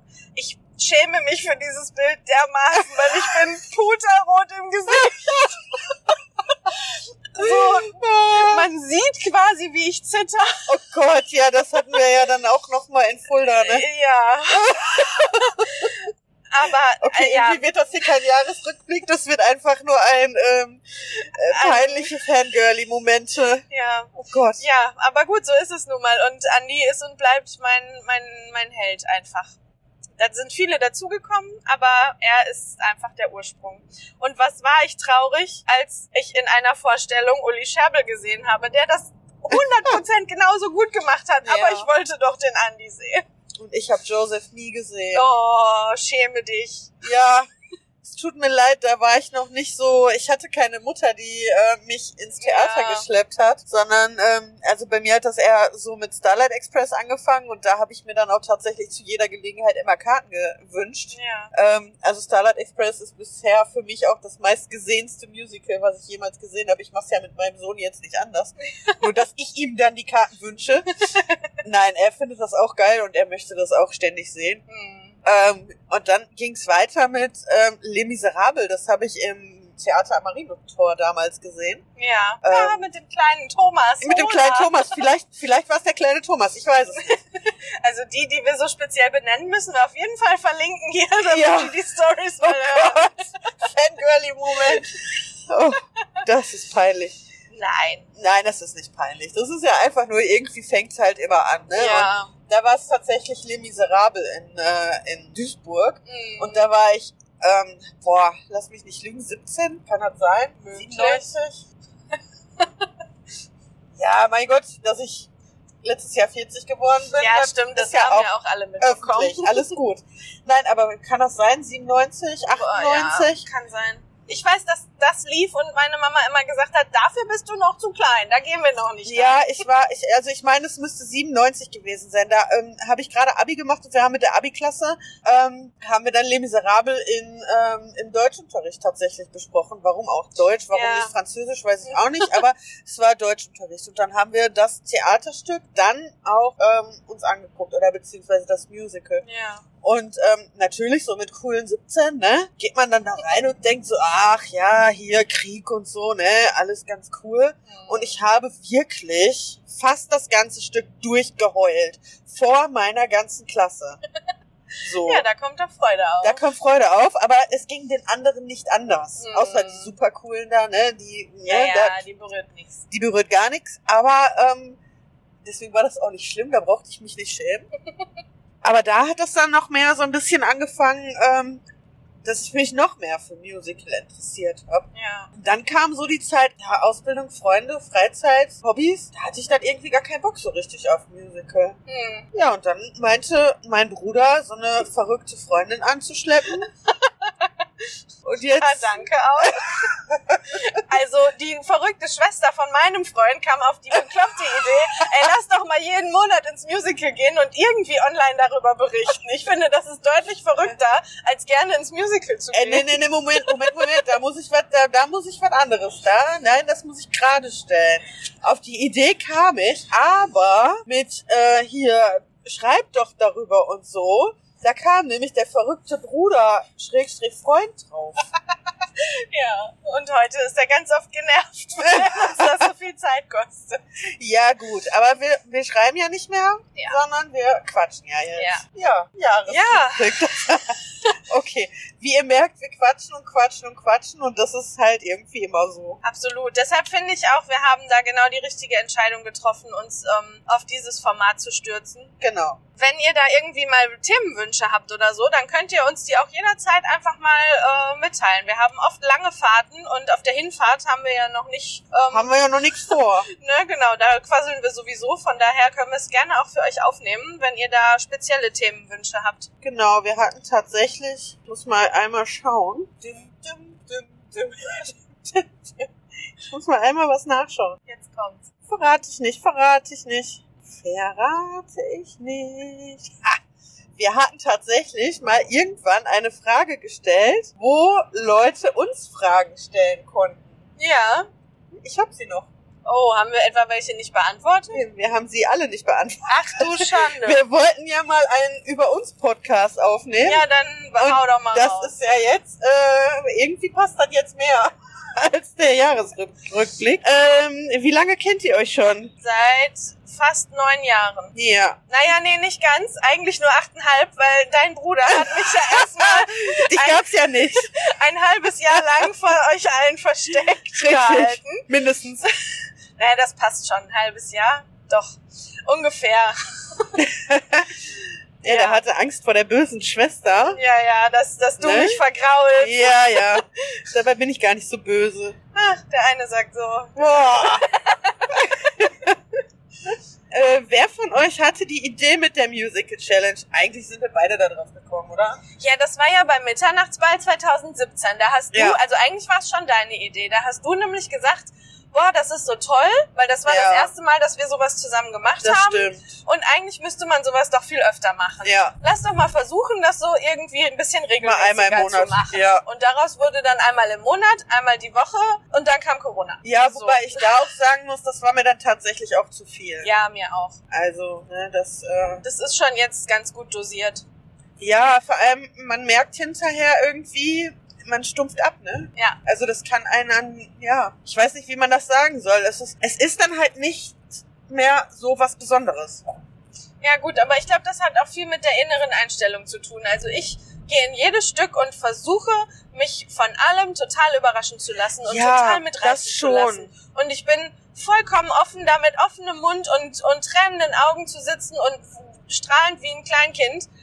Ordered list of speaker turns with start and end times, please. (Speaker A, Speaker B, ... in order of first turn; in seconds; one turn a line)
Speaker A: 0.3-5.8
Speaker B: 5.0-5.6
Speaker A: 7.3-10.7
Speaker B: 7.4-8.7
Speaker B: 10.7-13.9
Speaker A: 13.5-17.6
Speaker B: 14.5-16.0
Speaker B: 17.0-24.6
Speaker A: 21.5-22.1
Speaker A: 23.7-29.6
Speaker A: 30.2-43.3
Speaker B: 39.5-40.0
Speaker B: 41.4-41.9
Speaker B: 43.6-45.3
Speaker A: 45.1-47.0
Speaker B: 47.0-47.5
Speaker B: 48.0-70.9
Speaker A: 52.4-53.1
Speaker A: 61.1-61.5
Speaker A: 71.0-71.4
Speaker B: 71.6-74.6
Speaker A: 74.7-75.2
Speaker B: 75.2-81.8
Speaker A: 82.0-85.0
Speaker B: 82.4-82.8
Speaker B: 84.0-87.2
Speaker A: 87.0-93.7
Speaker B: 91.3-91.8
Speaker B: 92.4-97.2
Speaker A: 94.5-94.9
Speaker A: 97.5-98.1
Speaker B: 98.2-111.7
Speaker A: 101.7-102.3
Speaker A: 106.1-106.7
Speaker A: 110.6-111.3
Speaker A: 112.6-112.9
Speaker B: 114.0-115.3
Speaker B: 115.8-123.4
Speaker A: 117.2-119.7
Speaker A: 122.5-129.6
Speaker B: 129.1-149.2
Speaker A: 140.7-141.1
Speaker A: 141.9-142.4
Speaker A: 149.2-149.6
Speaker B: 149.8-164.0
Speaker A: 157.7-158.2
Speaker B: 164.8-165.3
Speaker A: 165.0-166.4
Speaker B: 166.2-172.0
Speaker A: 169.2-169.9
Speaker A: 171.5-172.8
Speaker B: 172.9-174.8
Speaker B: 175.4-177.7
Speaker B: 178.6-181.6
Speaker B: 182.2-191.8
Speaker A: 184.9-185.3
Speaker A: 191.9-192.3
Speaker B: 192.3-196.7
Speaker A: 196.6-197.6
Speaker B: 198.2-200.6
Speaker A: 198.6-199.9
Speaker A: 200.5-214.1
Speaker B: 212.5-228.2
Speaker A: 229.0-233.8
Speaker B: 231.8-232.7
Speaker B: 234.2-246.0
Speaker A: 238.4-238.6
Speaker A: 239.5-240.2
Speaker A: 246.0-252.1
Speaker B: 252.2-252.6
Speaker A: 252.8-269.5
Speaker B: 262.1-263.3
Speaker B: 269.6-275.5
Speaker B: 276.5-277.8
Speaker A: 277.9-278.5
Speaker B: 278.7-283.4
Speaker B: 284.0-290.6
Speaker A: 290.8-291.3
Speaker B: 291.7-292.5
Speaker A: 292.9-294.8
Speaker B: 294.7-309.1
Speaker A: 296.3-297.4
Speaker A: 300.2-302.0
Speaker A: 309.2-311.3
Speaker B: 311.3-311.8
Speaker A: 311.9-321.7
Speaker B: 315.1-317.7
Speaker B: 320.4-322.3
Speaker A: 323.0-327.0
Speaker B: 327.0-330.6
Speaker A: 328.4-328.8
Speaker A: 330.5-333.4
Speaker B: 331.6-332.0
Speaker B: 332.6-335.4
Speaker A: 335.5-338.7
Speaker B: 337.0-337.7
Speaker B: 338.3-339.2
Speaker B: 340.3-345.4
Speaker A: 345.6-367.5
Speaker B: 348.5-348.8
Speaker B: 353.5-353.9
Speaker B: 355.4-356.2
Speaker B: 358.4-358.8
Speaker B: 361.2-362.6
Speaker B: 366.4-369.9
Speaker A: 369.8-370.6
Speaker B: 370.7-372.2
Speaker A: 372.2-374.1
Speaker B: 374.6-386.2
Speaker A: 386.8-403.7
Speaker B: 395.0-396.7